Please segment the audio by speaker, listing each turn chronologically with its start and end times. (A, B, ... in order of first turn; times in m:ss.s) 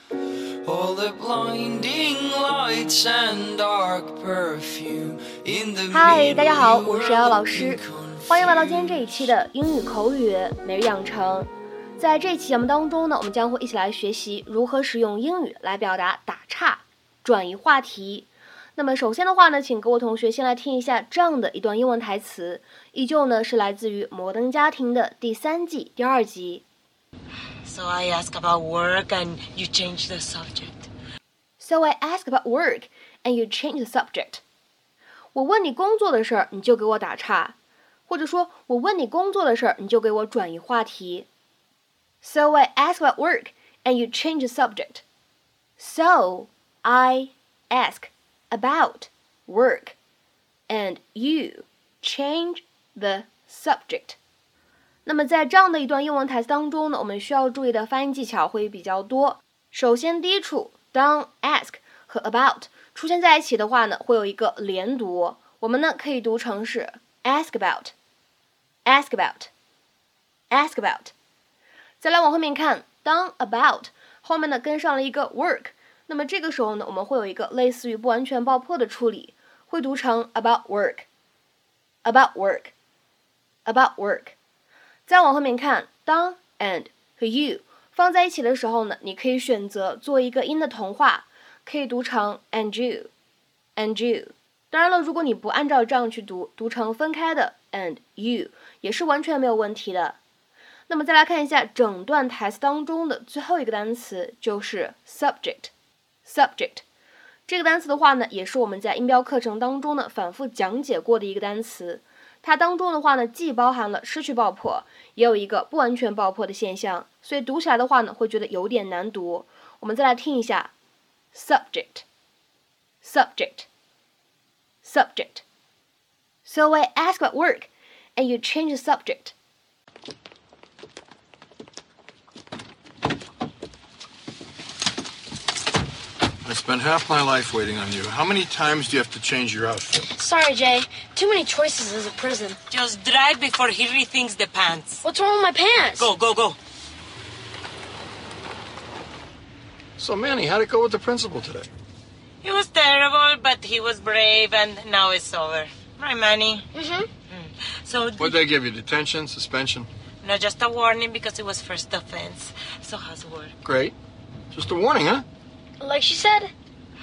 0:00.6-0:09.1 A
0:05.9-0:26.6 B
0:27.6-0:30.9 C
0:31.6-0:34.4 B
0:35.3-0:37.6 B
0:38.1-0:41.3 B
0:42.2-0:45.0 B
0:45.8-0:50.0 B
0:50.7-0:54.2 B
0:55.0-1:07.9 B
1:08.8-1:09.5 B
1:10.5-1:11.1 B
1:12.0-1:21.1 B
1:22.0-1:22.7 B
1:23.6-1:24.4 B
1:25.0-1:33.1 B
1:33.8-1:40.2 B
1:40.9-1:45.7 B
1:46.2-1:46.8 B
1:47.5-2:00.7 B
2:01.3-2:02.1 B
2:03.0-2:03.7 B
2:04.8-2:05.4 B
2:06.4-2:09.3 B
2:16.4-2:20.1 D
2:20.2-2:22.6 E
2:22.7-2:25.0 C
2:25.1-2:26.0 E
2:25.8-2:26.6 C
2:30.0-2:31.7 D
2:32.4-2:36.7 C
2:36.8-2:37.1 E
2:37.3-2:38.4 C
2:38.2-2:39.9 D
2:40.2-2:43.5 C
2:43.6-2:43.9 D
2:44.5-2:45.2 D
2:45.8-2:46.5 E